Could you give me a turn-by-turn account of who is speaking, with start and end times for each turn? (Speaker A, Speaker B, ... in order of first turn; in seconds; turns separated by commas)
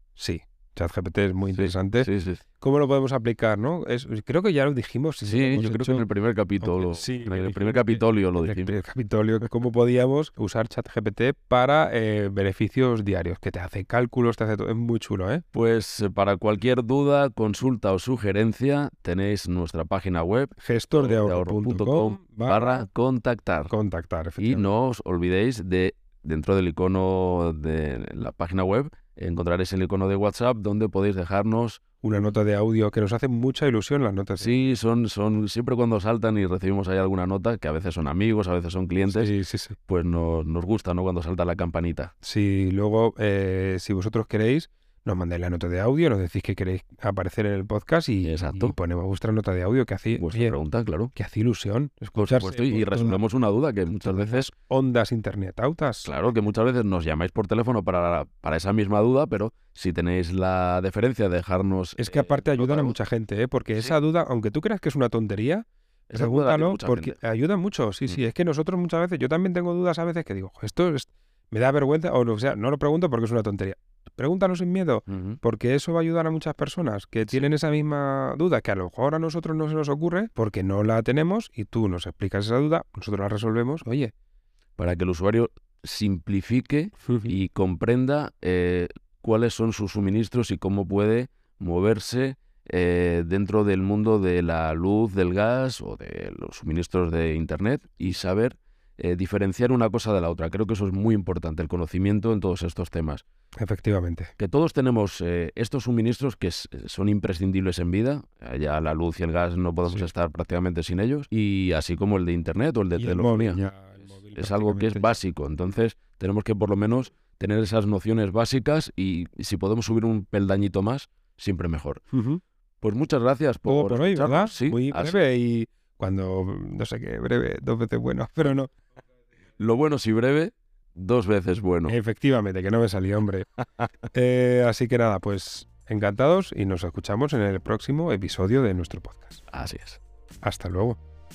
Speaker A: 0.2-2.1, Speaker B: 1.5-2.4, Speaker A: 2.6-6.0, Speaker B: 5.2-8.7, Speaker A: 6.6-15.4, Speaker B: 15.5-23.7, Speaker A: 20.6-22.6, Speaker A: 23.7-24.7, Speaker B: 24.4-31.8, Speaker A: 32.0-34.5, Speaker B: 34.4-39.3, Speaker A: 39.1-39.8, Speaker B: 39.9-42.1, Speaker A: 42.2-50.5, Speaker B: 48.2-48.8, Speaker B: 50.2-51.1, Speaker A: 51.1-53.2, Speaker B: 52.1-54.5, Speaker A: 53.9-56.1, Speaker B: 56.0-63.0, Speaker A: 62.0-84.1, Speaker B: 66.1-67.2, Speaker B: 75.1-75.4, Speaker B: 84.8-103.2, Speaker A: 87.0-87.3, Speaker A: 103.6-104.3, Speaker B: 104.4-113.6, Speaker A: 113.0-115.2, Speaker B: 114.3-122.0, Speaker A: 122.1-122.4, Speaker B: 122.8-125.2, Speaker A: 123.7-128.7, Speaker B: 129.6-131.9, Speaker A: 131.9-133.5, Speaker A: 134.1-139.4, Speaker B: 139.5-140.0, Speaker A: 140.4-141.0